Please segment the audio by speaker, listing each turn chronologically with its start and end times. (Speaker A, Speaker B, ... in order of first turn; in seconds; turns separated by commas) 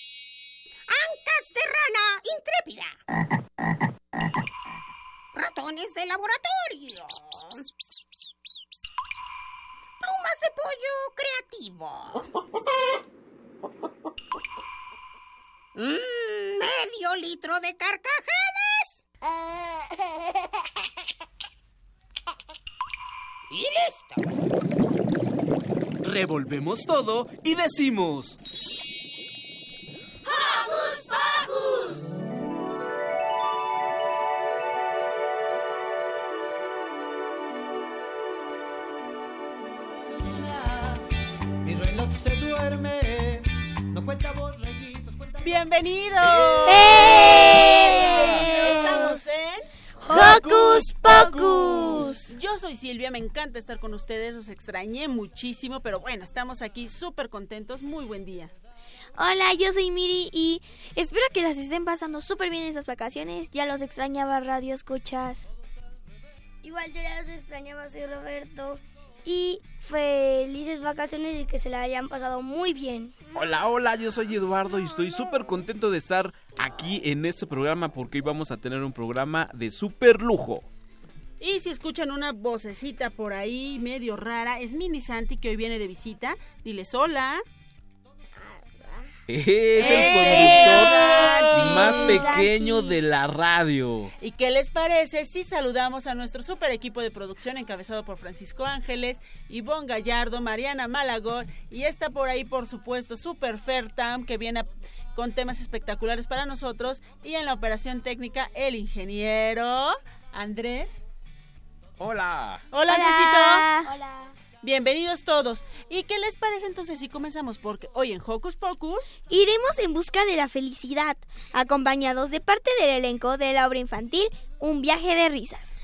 Speaker A: 0.9-3.0, Speaker A: 5.3-7.6, Speaker A: 10.0-12.3, Speaker A: 15.7-19.9, Speaker A: 23.5-24.2, Speaker B: 26.0-28.4, Speaker A: 30.4-31.4, Speaker C: 40.1-41.0, Speaker C: 41.6-46.4, Speaker D: 45.4-49.7, Speaker E: 46.6-49.2, Speaker F: 46.9-47.4, Speaker F: 48.7-49.0, Speaker F: 50.1-52.2, Speaker E: 50.1-52.3, Speaker B: 50.1-52.0, Speaker D: 52.3-58.5, Speaker E: 59.2-65.5, Speaker F: 66.6-73.2, Speaker B: 73.3-80.7, Speaker D: 81.4-87.4, Speaker B: 89.3-91.0, Speaker D: 89.8-92.3, Speaker E: 90.2-92.5, Speaker F: 91.0-92.5, Speaker B: 91.5-94.1, Speaker D: 94.2-111.0, Speaker B: 112.0-112.6, Speaker D: 112.7-113.7, Speaker E: 112.9-113.9, Speaker F: 113.8-114.3, Speaker D: 114.6-119.1, Speaker E: 119.3-125.7